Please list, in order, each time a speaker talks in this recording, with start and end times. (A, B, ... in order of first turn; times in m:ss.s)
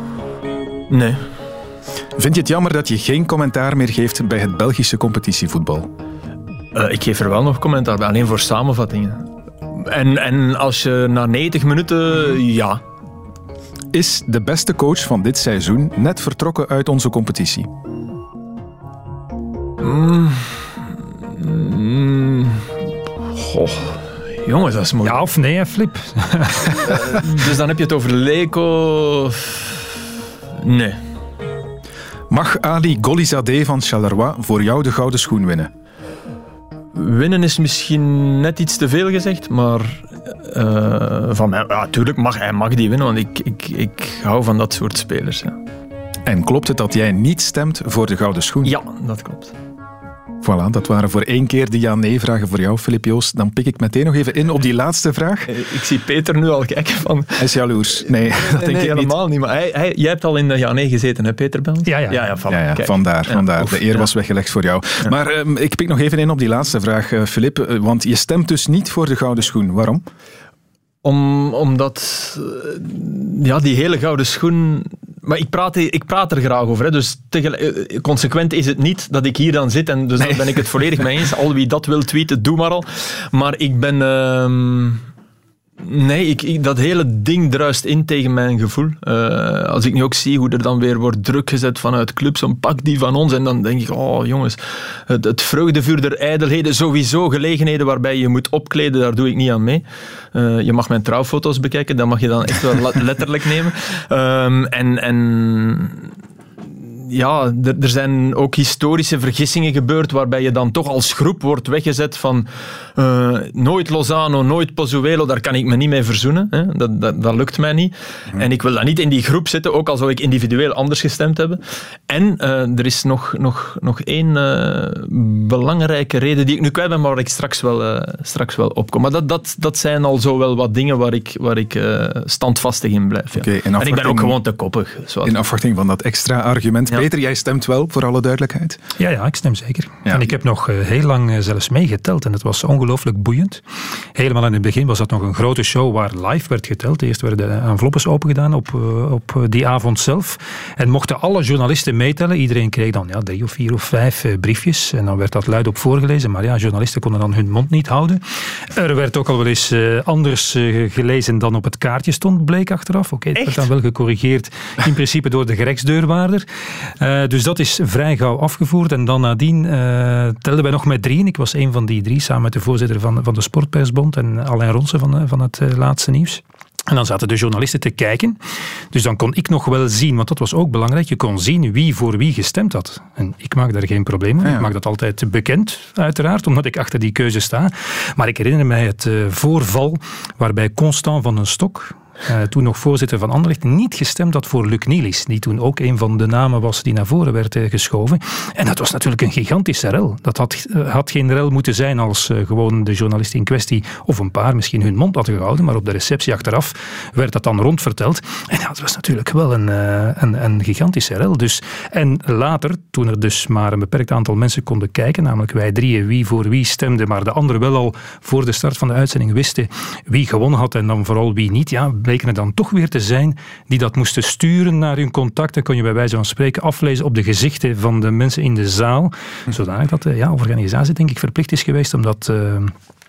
0:00.9-0:01.2 A
0:02.2-0:05.9 B
0:06.7-0:12.8 A
0:13.9-0:17.7 B
0:19.8-0:20.7 A
0:21.3-0:22.7 A
0:23.3-0:25.2 A
0:25.0-0:26.9 C
0:26.7-0:29.8 A
0:30.6-0:31.0 A
0:32.3-0:35.7 B
0:36.9-0:45.6 A
0:46.2-0:48.7 B
0:48.6-0:49.5 A
0:50.4-0:55.5 B
0:55.5-1:04.1 A
0:57.4-0:59.1 B
1:01.8-1:02.3 C
1:02.5-1:10.0 B
1:11.0-1:25.0 A
1:20.2-1:20.6 B
1:25.8-1:46.1 A
1:46.8-2:15.3 A
2:13.4-2:14.4 B
2:15.2-2:18.8 B
2:19.0-2:23.6 C
2:24.1-2:38.2 C
2:38.7-2:46.4 C
2:47.0-2:58.4 C
2:58.9-3:52.7 C
3:04.4-3:04.7 B